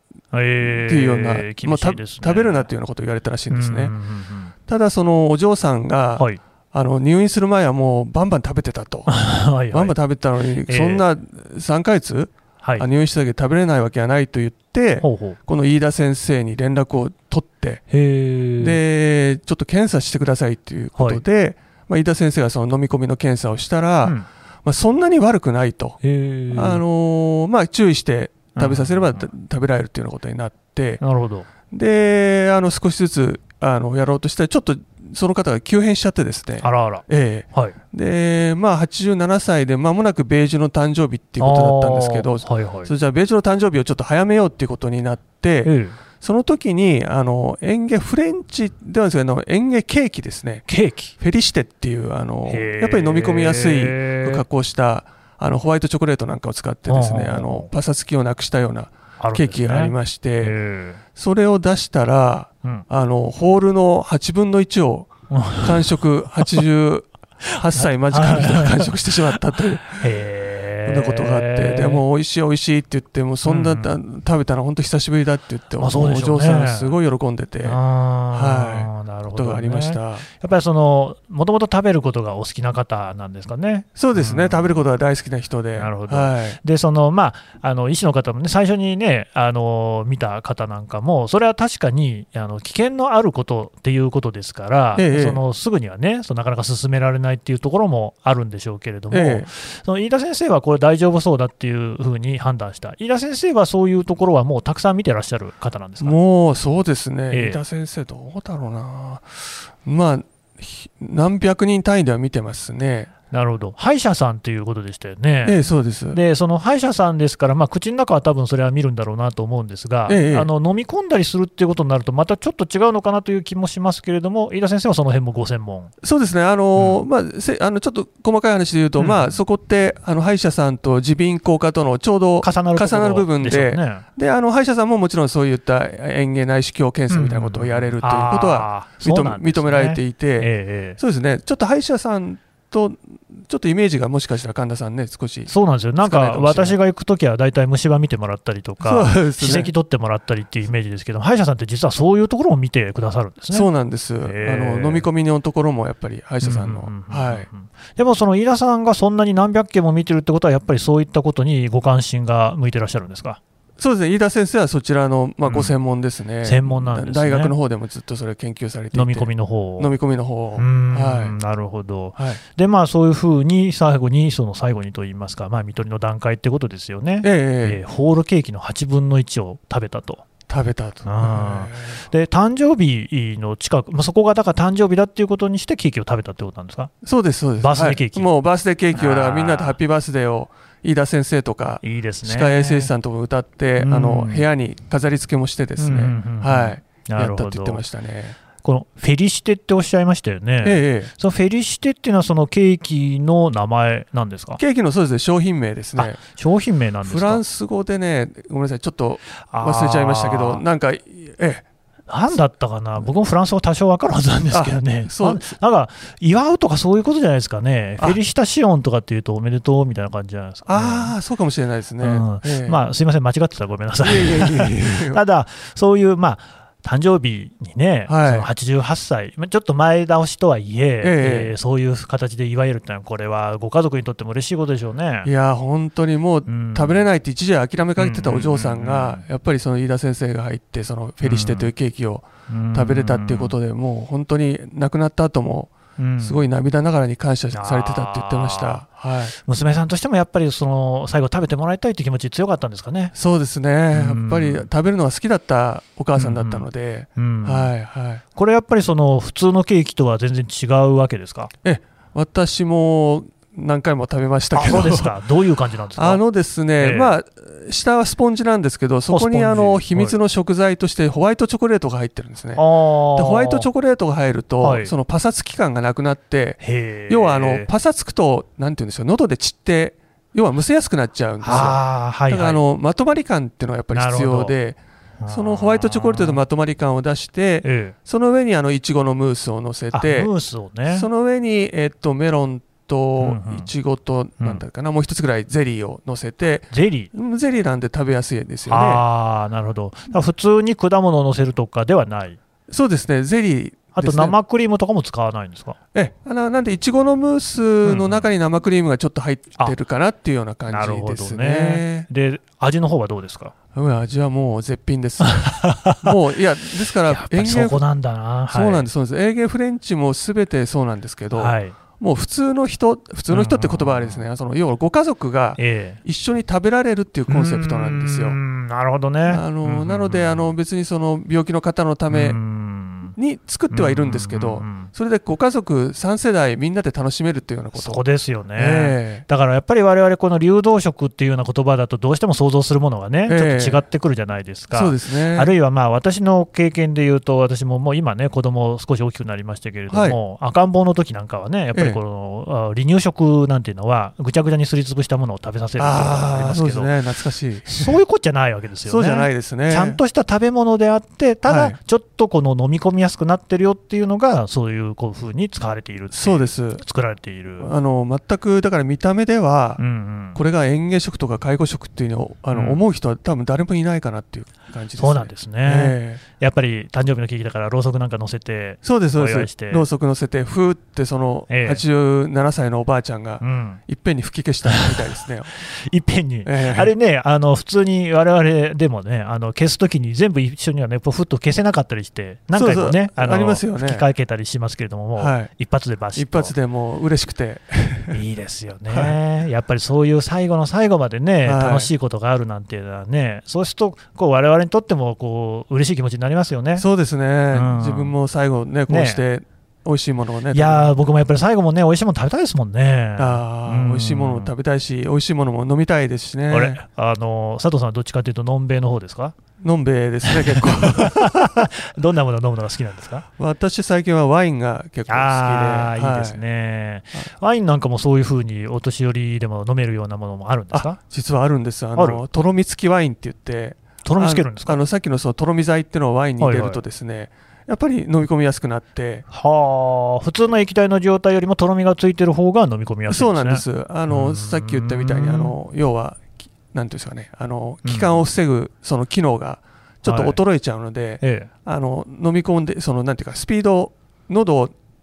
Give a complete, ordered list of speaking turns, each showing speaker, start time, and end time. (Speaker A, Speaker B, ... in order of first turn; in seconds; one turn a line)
Speaker A: 0.3-2.7
Speaker B: 0.6-3.9
Speaker A: 3.5-4.5
Speaker B: 4.7-9.1
Speaker A: 9.1-9.9
Speaker B: 9.7-17.8
Speaker A: 10.7-11.0
Speaker A: 15.0-15.4
Speaker A: 17.9-18.8
Speaker B: 18.6-26.0
Speaker A: 20.9-21.2
Speaker A: 26.0-26.8
Speaker B: 26.5-31.0
Speaker A: 28.5-29.3
Speaker A: 31.0-31.5
Speaker B: 31.7-60.6
Speaker A: 36.6-37.8
Speaker A: 41.4-42.9
Speaker A: 45.6-46.0
Speaker A: 50.7-51.1
Speaker A: 52.5-54.4
Speaker A: 56.9-57.7
Speaker A: 59.2-61.0
Speaker B: 61.1-70.0
Speaker A: 65.3-66.6
Speaker A: 67.7-69.3
Speaker A: 69.9-72.0
Speaker B: 70.8-77.8
Speaker A: 73.4-73.9
Speaker A: 75.8-76.9
Speaker A: 77.6-84.8
Speaker B: 78.3-80.2
Speaker B: 84.0-86.6
Speaker A: 85.8-106.2
Speaker B: 95.0-95.4
Speaker B: 99.1-99.5
Speaker B: 106.0-113.1
Speaker A: 107.3-107.6
Speaker A: 113.3-115.6
Speaker B: 115.4-116.2
Speaker A: 116.1-125.9
Speaker B: 120.1-120.5
Speaker B: 126.0-145.5
Speaker A: 126.8-127.0
Speaker A: 129.0-129.4
Speaker A: 132.4-134.0
Speaker A: 137.1-141.0
Speaker A: 145.5-153.7
Speaker B: 146.0-146.8
Speaker B: 148.8-149.7
Speaker B: 153.5-157.5
Speaker A: 154.2-155.1
Speaker A: 156.4-163.4
Speaker B: 163.8-171.3
Speaker A: 165.4-165.7
Speaker A: 166.4-167.5
Speaker A: 168.9-169.9
Speaker A: 170.6-180.2
Speaker B: 177.2-177.8
Speaker B: 180.5-182.0
Speaker A: 181.0-186.9
Speaker B: 187.0-198.3
Speaker A: 187.6-188.3
Speaker A: 188.9-189.8
Speaker A: 191.8-192.9
Speaker A: 193.8-194.4
Speaker A: 195.8-197.8
Speaker A: 198.6-204.6
Speaker B: 200.6-201.1
Speaker B: 204.6-206.2
Speaker A: 206.0-207.4
Speaker B: 207.0-211.7
Speaker A: 209.4-210.6
Speaker A: 212.1-221.1
Speaker B: 214.5-215.5
Speaker B: 220.7-222.8
Speaker A: 222.0-235.3
Speaker B: 224.0-225.2
Speaker B: 228.1-228.5
Speaker B: 231.0-231.5
Speaker B: 235.2-249.3
Speaker A: 236.5-237.0
Speaker A: 238.0-239.2
Speaker A: 241.2-241.7
Speaker A: 242.5-243.5
Speaker A: 246.0-246.4
Speaker A: 247.5-248.8
Speaker A: 249.4-253.1
Speaker B: 253.1-258.2
Speaker A: 253.9-254.7
Speaker A: 256.1-257.7
Speaker A: 258.4-261.5
Speaker B: 261.6-265.1
Speaker A: 264.5-266.2
Speaker B: 265.9-290.3
Speaker A: 266.8-267.1
Speaker A: 269.1-270.2
Speaker A: 272.6-273.7
Speaker A: 274.6-274.9
Speaker A: 276.6-277.7
Speaker A: 281.4-282.6
Speaker A: 283.9-284.5
Speaker A: 285.2-286.4
Speaker A: 287.6-287.9
Speaker A: 289.9-291.1
Speaker B: 290.9-299.0
Speaker A: 293.2-293.7
Speaker A: 296.7-297.1
Speaker A: 298.7-302.4
Speaker B: 302.7-304.3
Speaker A: 303.9-305.8
Speaker B: 305.9-312.1
Speaker A: 307.8-308.3
Speaker A: 310.7-313.5
Speaker B: 313.7-317.8
Speaker A: 315.2-316.2
Speaker A: 317.1-318.9
Speaker B: 318.5-328.4
Speaker A: 321.3-321.8
Speaker A: 323.3-324.2
Speaker A: 325.6-326.0
Speaker A: 327.3-330.5
Speaker B: 329.3-332.4
Speaker A: 332.1-333.1
Speaker B: 333.1-338.0
Speaker A: 333.7-334.9
Speaker A: 337.7-356.9
Speaker B: 338.6-339.2
Speaker B: 343.3-343.8
Speaker B: 344.7-345.5
Speaker B: 349.9-350.2
Speaker B: 351.7-352.0
Speaker B: 355.8-357.9
Speaker A: 357.6-367.7
Speaker B: 358.8-360.0
Speaker B: 361.4-361.8
Speaker B: 366.1-366.8
Speaker B: 367.6-369.8
Speaker A: 369.8-370.4
Speaker B: 370.3-376.2
Speaker A: 372.5-372.8
Speaker A: 375.0-379.8
Speaker B: 378.8-385.5
Speaker A: 381.5-381.8
Speaker A: 383.4-383.8
Speaker A: 384.6-396.5
Speaker B: 386.4-386.9
Speaker B: 392.5-394.1
Speaker B: 395.1-395.5
Speaker B: 396.1-398.2
Speaker A: 398.1-406.9
Speaker B: 398.9-399.1
Speaker B: 401.4-401.9
Speaker B: 406.8-410.9
Speaker A: 407.5-408.1
Speaker A: 408.9-409.2
Speaker A: 410.5-414.5
Speaker B: 413.2-416.8
Speaker A: 416.5-419.3
Speaker B: 419.6-421.7
Speaker A: 420.2-423.3
Speaker B: 423.4-426.4
Speaker A: 425.1-431.0
Speaker B: 430.7-439.2
Speaker A: 431.9-432.2
Speaker A: 434.0-434.8
Speaker A: 436.4-436.8
Speaker A: 439.3-445.5
Speaker B: 443.1-454.7
Speaker A: 447.8-448.2
Speaker A: 450.0-450.4
Speaker A: 451.2-451.5